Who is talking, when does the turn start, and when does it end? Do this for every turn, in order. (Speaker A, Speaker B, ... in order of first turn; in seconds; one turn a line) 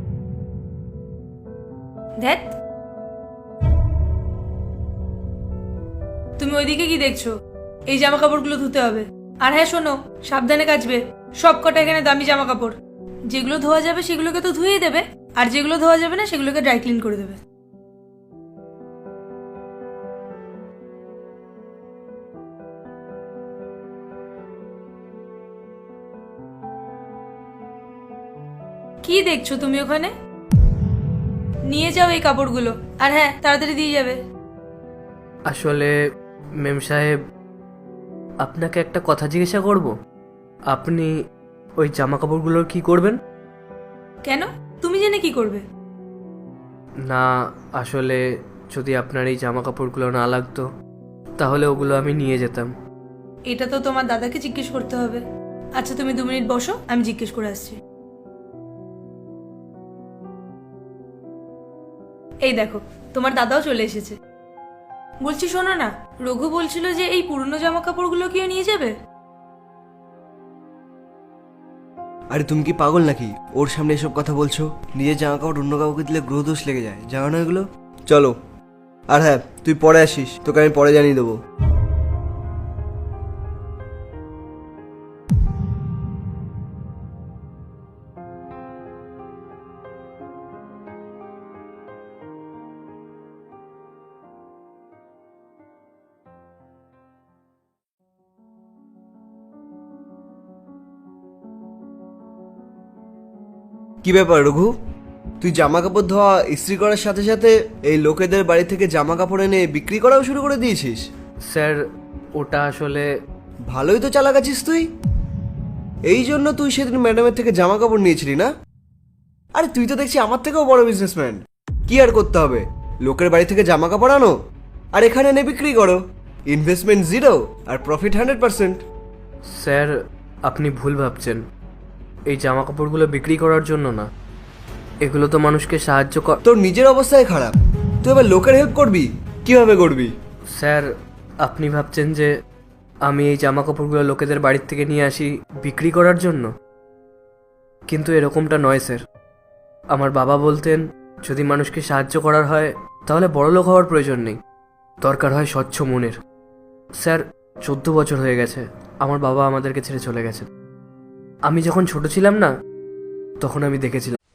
Speaker A: 2.2-2.5
Speaker A: 6.4-7.3
Speaker A: 7.9-12.8
Speaker A: 13.3-17.4
Speaker A: 29.0-30.1
Speaker A: 31.7-34.2
Speaker B: 35.5-35.9
Speaker B: 36.6-37.1
Speaker B: 38.4-39.9
Speaker B: 40.7-41.1
Speaker B: 41.8-43.2
Speaker A: 44.2-45.6
Speaker B: 47.8-48.2
Speaker B: 48.7-50.7
Speaker B: 51.4-52.7
Speaker A: 53.5-55.2
Speaker A: 55.8-57.8
Speaker A: 62.4-64.2
Speaker A: 65.2-68.9
Speaker C: 72.3-78.3
Speaker C: 79.1-81.4
Speaker C: 104.0-104.7
Speaker C: 105.4-111.0
Speaker B: 111.5-111.8
Speaker B: 112.4-113.1
Speaker C: 113.7-114.9
Speaker C: 116.1-118.5
Speaker C: 119.5-124.3
Speaker C: 124.9-128.8
Speaker B: 129.6-129.9
Speaker B: 130.5-131.4
Speaker B: 132.3-134.1
Speaker B: 135.0-136.4
Speaker C: 136.4-140.1
Speaker B: 140.6-140.9
Speaker B: 141.4-142.3
Speaker B: 143.1-146.5
Speaker B: 147.9-149.0
Speaker B: 149.9-154.4
Speaker B: 155.0-156.2
Speaker B: 157.0-160.5
Speaker B: 161.5-162.5
Speaker B: 163.4-164.2